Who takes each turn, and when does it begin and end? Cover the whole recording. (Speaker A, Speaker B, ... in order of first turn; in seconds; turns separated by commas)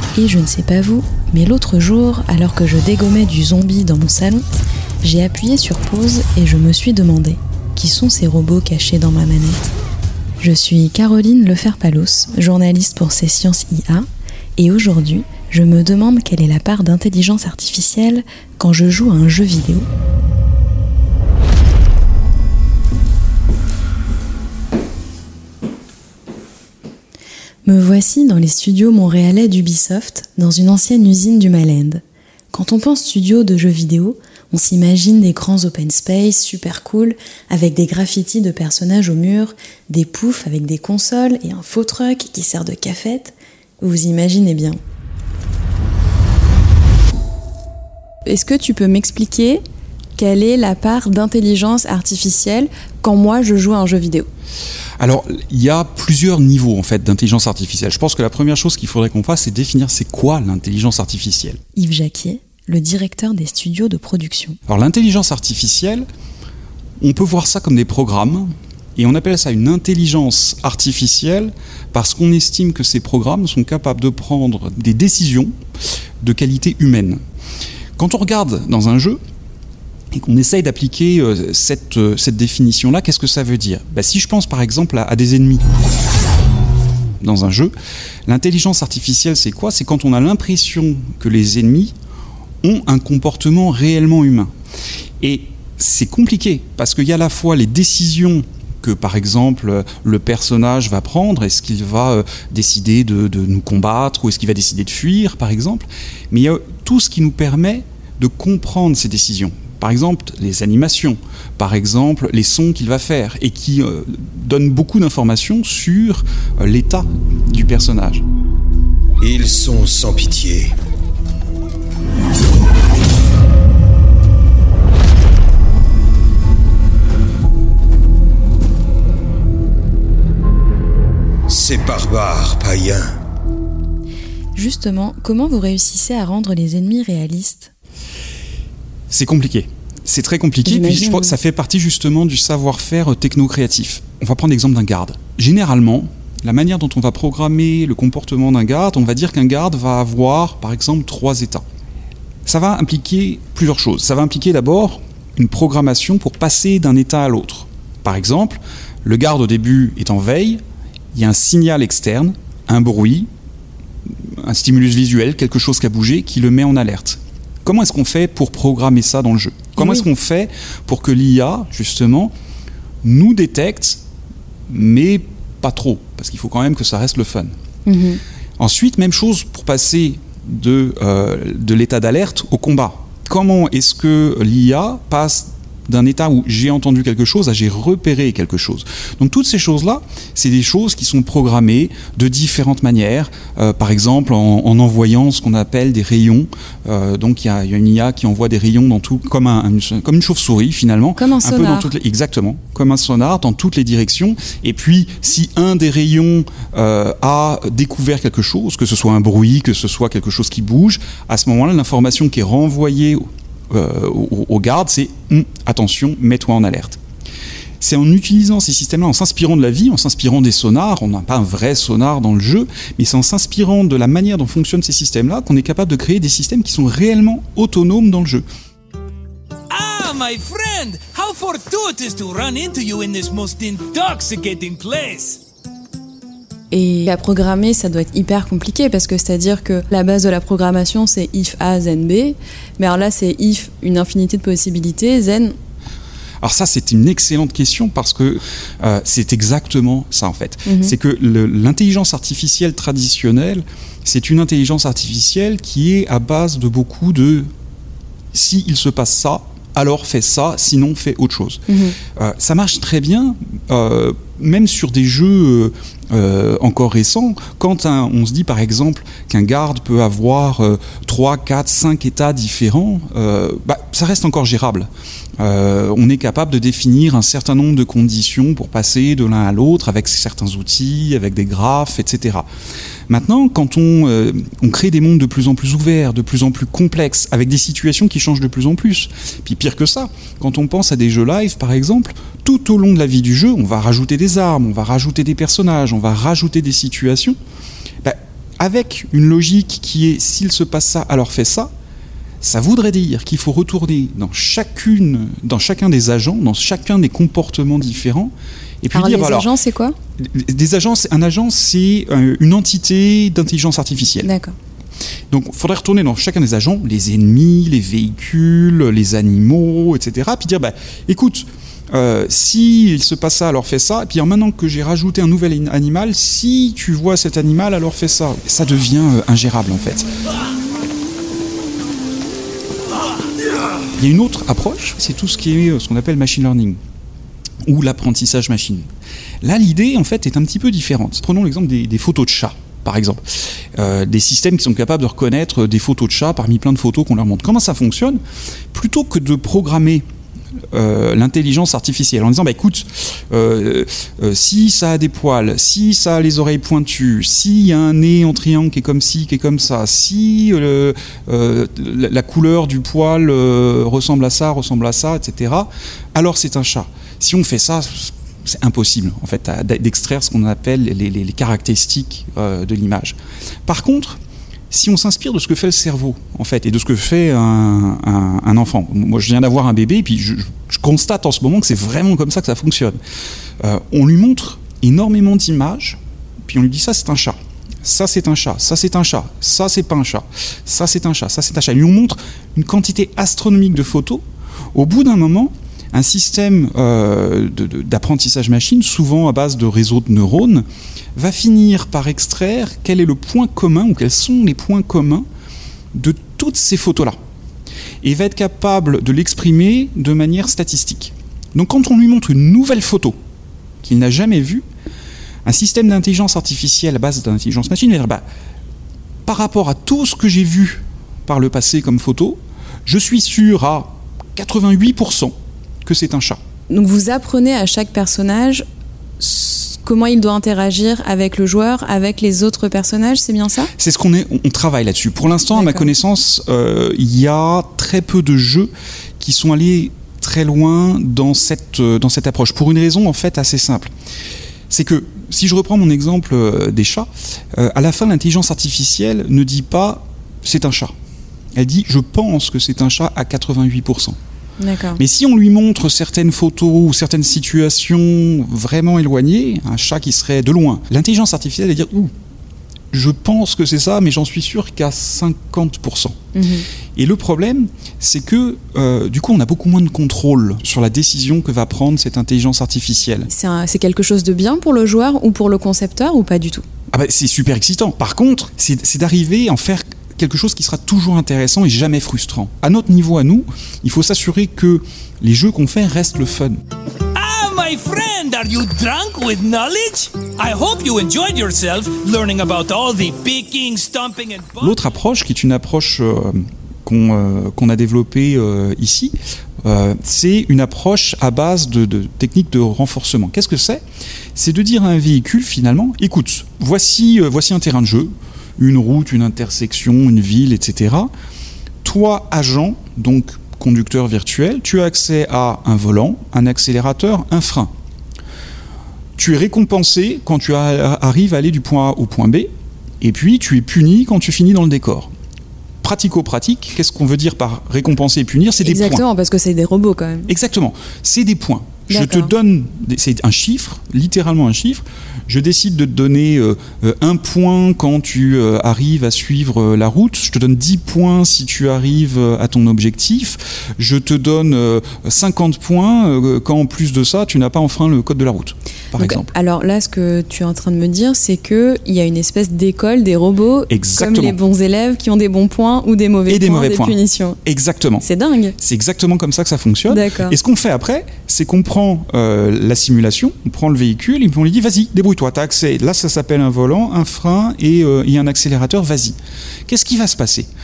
Speaker A: 0.2-4.4, Speaker A: 5.0-9.7, Speaker A: 10.4-14.1, Speaker A: 14.6-19.9, Speaker A: 27.6-32.0, Speaker A: 32.5-44.8, Speaker A: 48.3-49.6, Speaker A: 50.2-54.3, Speaker B: 55.0-61.6, Speaker A: 61.8-64.6, Speaker B: 64.7-66.1, Speaker B: 67.0-75.5, Speaker B: 76.2-77.2, Speaker B: 78.0-79.2, Speaker B: 80.1-85.6, Speaker B: 87.2-87.7, Speaker B: 88.3-92.0, Speaker B: 92.6-94.5, Speaker B: 95.2-118.2, Speaker C: 119.2-120.8, Speaker C: 131.5-133.1, Speaker A: 134.6-137.7, Speaker B: 139.1-151.7, Speaker A: 140.7-141.4, Speaker B: 152.5-160.6, Speaker B: 161.1-163.3, Speaker B: 164.2-172.3, Speaker A: 169.8-170.0, Speaker B: 173.0-174.0, Speaker B: 174.7-177.6, Speaker A: 177.9-178.2, Speaker B: 178.6-217.0, Speaker A: 201.2-201.9, Speaker B: 217.8-228.4, Speaker D: 229.7-235.4, Speaker A: 236.7-245.6, Speaker B: 246.4-257.5, Speaker A: 250.7-251.0, Speaker B: 258.3-261.6, Speaker A: 261.7-262.0, Speaker B: 262.2-282.5, Speaker B: 283.1-297.4, Speaker B: 298.0-301.7, Speaker B: 302.4-309.5, Speaker A: 308.9-310.0, Speaker B: 310.2-314.3, Speaker A: 314.2-314.6, Speaker B: 315.3-330.1, Speaker B: 334.0-336.8, Speaker B: 337.6-338.9, Speaker B: 339.4-343.2, Speaker B: 343.8-348.2, Speaker B: 348.7-350.1, Speaker B: 350.7-374.2, Speaker B: 374.7-383.0, Speaker B: 383.6-400.6, Speaker B: 401.2-405.3, Speaker B: 405.9-407.2, Speaker B: 408.0-413.2, Speaker B: 413.8-414.6, Speaker B: 415.4-418.2, Speaker B: 419.2-426.4, Speaker A: 426.7-428.6, Speaker A: 429.2-433.7, Speaker B: 433.8-443.9, Speaker A: 435.5-435.9, Speaker B: 444.7-450.9, Speaker B: 451.6-454.2, Speaker A: 454.6-455.0, Speaker B: 455.0-462.1, Speaker B: 462.9-466.2, Speaker A: 466.4-466.7, Speaker B: 467.0-473.3, Speaker A: 473.3-476.6, Speaker B: 476.9-486.6, Speaker D: 487.1-494.8, Speaker B: 494.6-503.8, Speaker B: 504.4-511.1, Speaker B: 511.8-517.7, Speaker B: 519.2-525.1, Speaker B: 525.8-529.0, Speaker A: 528.6-530.3, Speaker B: 530.3-549.3, Speaker A: 531.9-532.3, Speaker A: 549.0-557.4, Speaker B: 553.7-554.4, Speaker B: 556.3-558.1, Speaker A: 558.0-558.6, Speaker B: 558.6-570.5, Speaker A: 559.9-560.4